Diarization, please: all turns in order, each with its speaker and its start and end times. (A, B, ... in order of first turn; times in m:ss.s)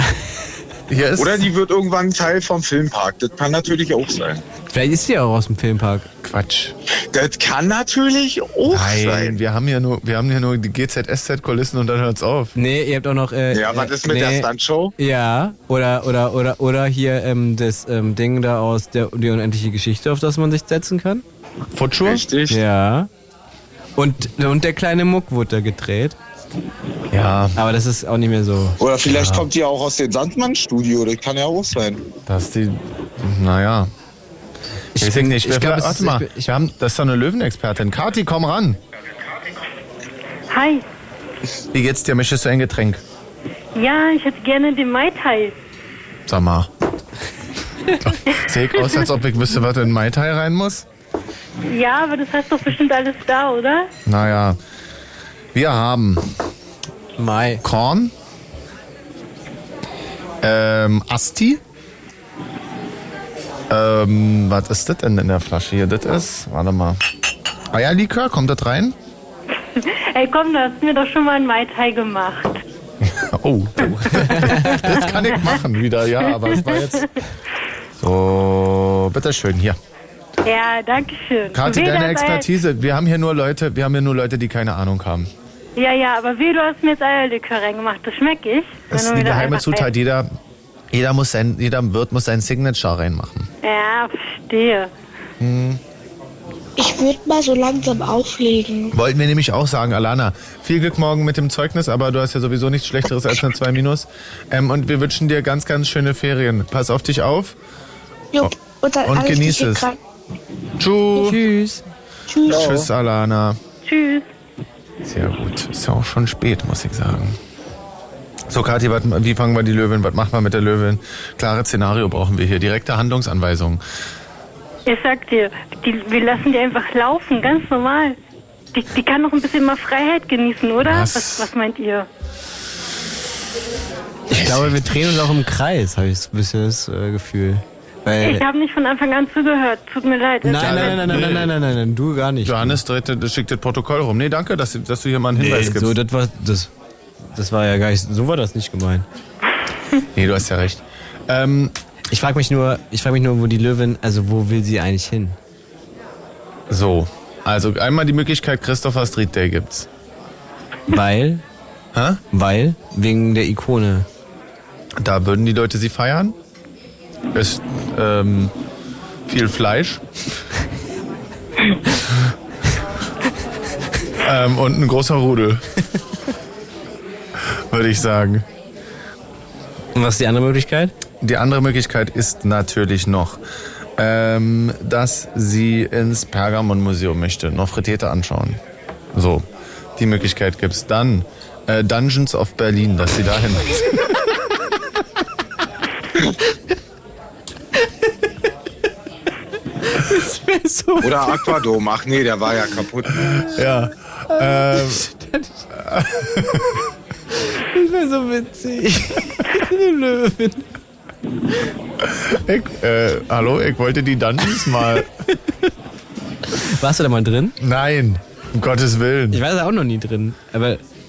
0:00.9-0:01.5 A
0:01.2-0:04.4 B
0:04.7-0:06.1 C
0:06.2-0:06.7 A
0:07.1-0:09.4 B
0:08.7-0:12.5 A
0:12.6-0:21.2 C
0:13.5-0:14.9 B
0:21.7-0:22.2 A
0:22.0-0:22.6 B
0:22.5-0:23.1 C
0:24.0-0:26.2 C
0:27.1-0:27.6 A
0:27.6-0:28.8 C
0:28.8-0:32.0 B
0:29.0-0:29.4 A
0:32.2-0:33.9 A
0:35.0-0:36.5 C
0:35.0-0:38.8 A
0:40.5-0:40.8 D
0:41.7-0:43.0 A
0:43.7-0:45.5 D
0:46.3-0:46.7 A
0:48.0-0:50.8 A
0:51.7-0:53.9 D
0:54.0-0:54.6 A
0:55.5-0:56.3 A
0:57.2-0:57.6 C
0:57.6-0:58.1 A
1:00.4-1:01.6 A
1:03.7-1:07.0 A
1:07.7-1:09.0 A
1:09.8-1:12.6 D
1:13.0-1:17.1 A
1:14.3-1:14.6 D
1:14.3-1:14.9 C
1:16.2-1:17.1 D
1:18.0-1:19.8 A
1:20.4-1:22.5 D
1:21.5-1:25.3 A
1:25.8-1:29.9 D
1:28.9-1:30.3 A
1:30.9-1:33.5 A
1:33.6-1:34.9 D
1:35.4-1:35.8 A
1:36.8-1:38.9 E
1:38.9-1:47.5 A
1:48.3-1:50.0 E
1:49.0-1:49.9 A
1:50.8-1:51.4 A
1:51.2-1:51.8 C
1:52.3-1:52.6 E
1:52.5-1:53.6 A
1:52.5-1:52.9 B
1:53.8-1:54.3 D
1:55.0-1:57.4 A
1:58.5-2:03.8 A
2:04.8-2:08.2 D
2:08.7-2:12.1 D
2:10.8-2:11.5 A
2:14.3-2:18.4 C
2:14.3-2:15.2 A
2:18.2-2:21.2 D
2:20.4-2:22.8 C
2:20.6-2:21.5 A
2:22.4-2:26.0 A
2:25.4-2:26.7 C
2:27.3-2:29.0 C
2:30.1-2:31.7 A
2:32.1-2:35.4 C
2:36.7-2:39.9 A
2:40.9-2:41.4 C
2:41.9-2:42.2 A
2:42.3-2:44.1 C
2:45.0-2:46.4 A
2:47.3-2:48.5 A
2:49.3-2:50.0 A
2:54.2-2:55.6 A
2:57.7-2:58.4 A
2:59.9-3:00.9 C
3:01.2-3:03.4 A
3:04.0-3:08.6 A
3:09.1-3:09.4 A
3:10.0-3:14.0 A
3:19.8-3:21.6 C
3:21.0-3:23.2 B
3:23.3-3:25.0 A
3:23.5-3:25.6 C
3:25.8-3:26.8 A
3:27.4-3:30.7 C
3:32.1-3:35.1 A
3:36.5-3:37.5 C
3:37.6-3:39.4 A
3:39.3-3:40.8 C